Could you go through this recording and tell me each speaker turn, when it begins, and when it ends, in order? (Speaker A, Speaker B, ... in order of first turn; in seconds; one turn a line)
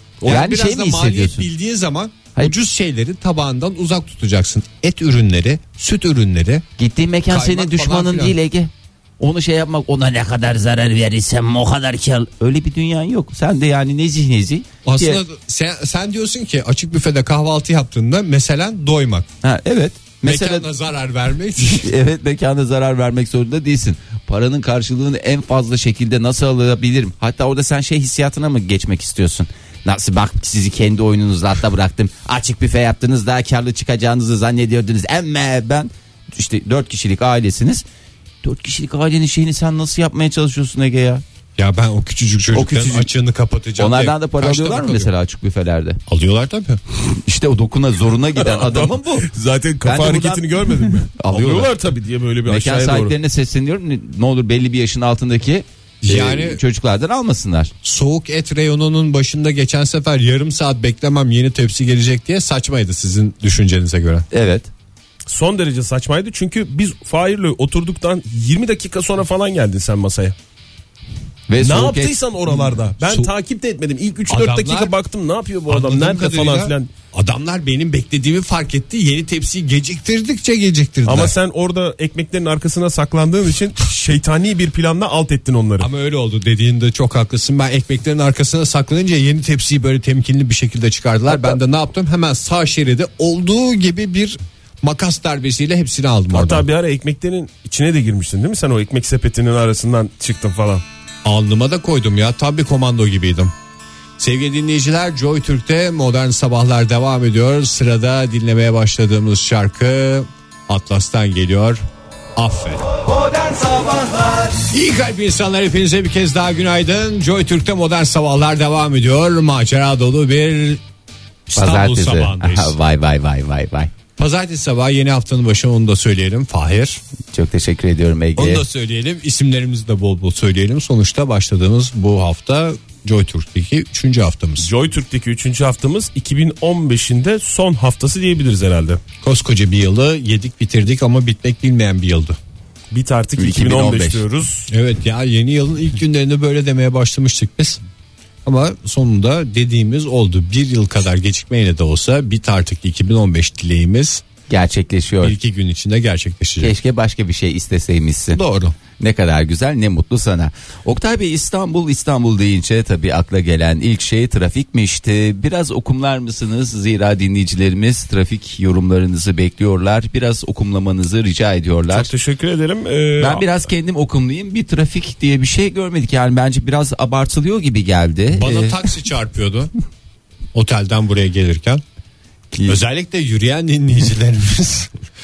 Speaker A: 0.2-6.7
Speaker B: 0.3-1.5
Speaker B: 6.8-15.2
Speaker A: 7.3-8.4
Speaker A: 14.8-19.3
Speaker B: 19.4-20.7
Speaker A: 20.2-21.9
Speaker B: 21.6-37.8
Speaker B: 38.4-41.2
Speaker A: 41.6-45.1
Speaker C: 42.5-43.0
Speaker B: 43.8-46.0
Speaker A: 46.1-46.8
Speaker B: 47.2-49.3
Speaker C: 48.4-53.1
Speaker B: 49.8-51.7
Speaker B: 52.5-57.7
Speaker A: 56.0-56.6
Speaker A: 57.8-64.3
Speaker B: 64.3-64.7
Speaker C: 65.3-70.3
Speaker B: 71.5-73.3
Speaker C: 71.6-76.9
Speaker A: 74.3-74.9
Speaker A: 75.7-81.3
Speaker C: 81.0-85.9
Speaker A: 85.8-96.7
Speaker C: 96.3-100.8
Speaker A: 101.2-103.5
Speaker A: 104.2-111.8
Speaker A: 112.4-113.0
Speaker A: 114.5-120.8
Speaker A: 121.5-122.8
Speaker B: 121.5-123.9
Speaker A: 124.2-127.0
Speaker B: 127.3-128.7
Speaker A: 128.4-134.7
Speaker C: 134.6-139.0
Speaker A: 139.2-142.4
Speaker C: 142.9-144.7
Speaker B: 143.4-144.2
Speaker A: 144.7-147.8
Speaker A: 148.4-154.2
Speaker B: 154.5-155.4
Speaker A: 155.2-156.8
Speaker B: 156.6-158.4
Speaker A: 158.3-158.8
Speaker B: 159.0-172.1
Speaker C: 171.9-173.5
Speaker B: 173.2-178.8
Speaker A: 178.3-179.7
Speaker A: 180.5-181.8
Speaker B: 182.5-182.8
Speaker A: 182.7-184.9